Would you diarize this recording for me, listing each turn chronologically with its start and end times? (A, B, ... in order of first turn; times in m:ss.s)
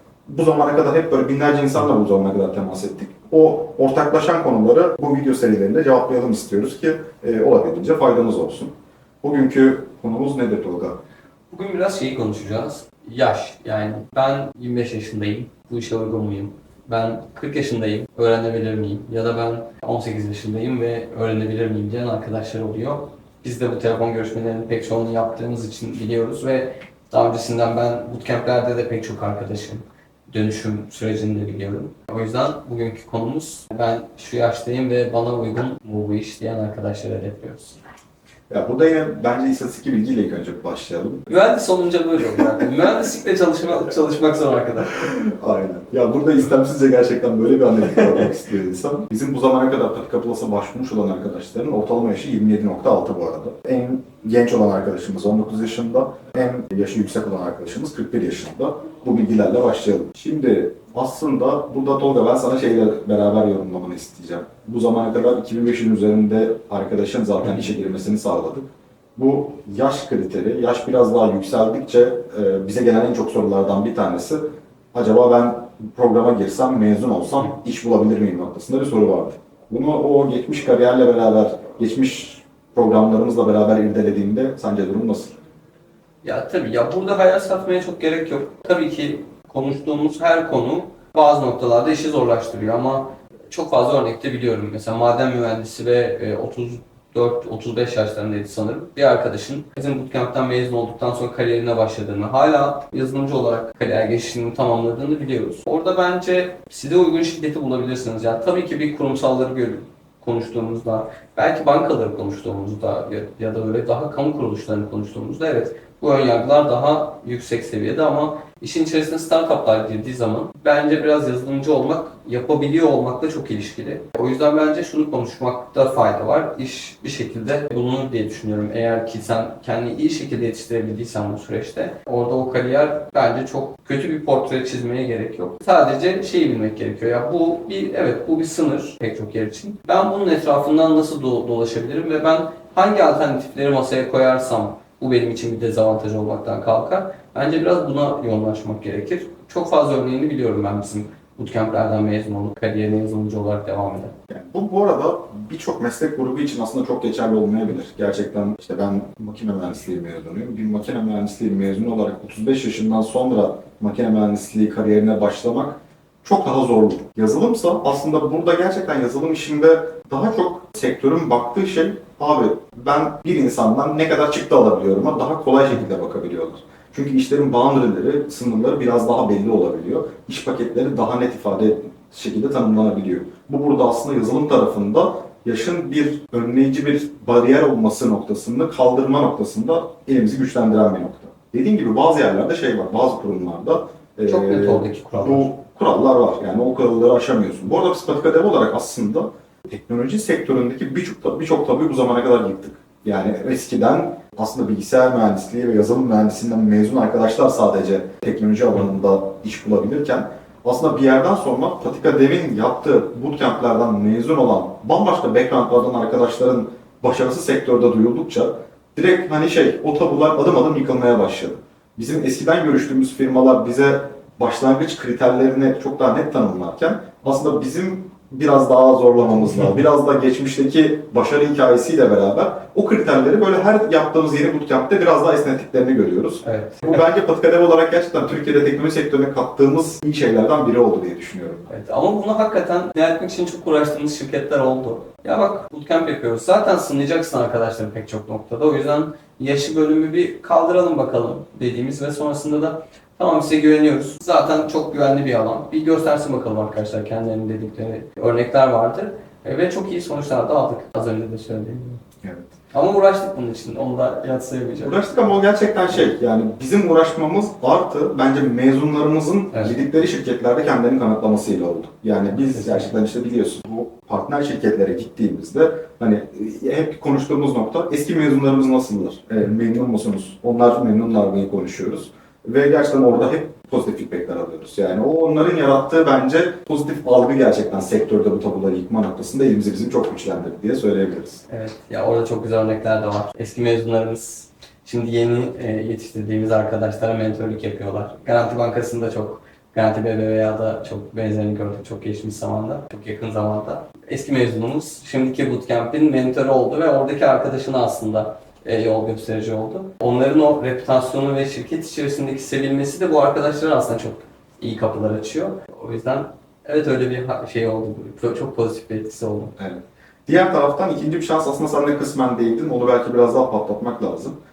0:00.3-0:08.7 A
0:09.2-0:11.0 A
0:11.5-0:37.8 B
0:38.5-0:41.4 A
0:41.3-0:45.0 B
0:44.9-1:25.4 A
1:26.2-2:34.1 B
2:34.3-4:01.7 A
3:14.3-3:15.5 B
3:56.4-3:57.0 B
4:01.7-4:22.0 B
4:22.2-4:22.5 A
4:22.7-4:25.1 B
4:24.8-4:51.4 A
4:29.5-4:29.8 B
4:32.5-4:32.9 B
4:51.5-5:19.5 B
5:19.6-5:24.3 A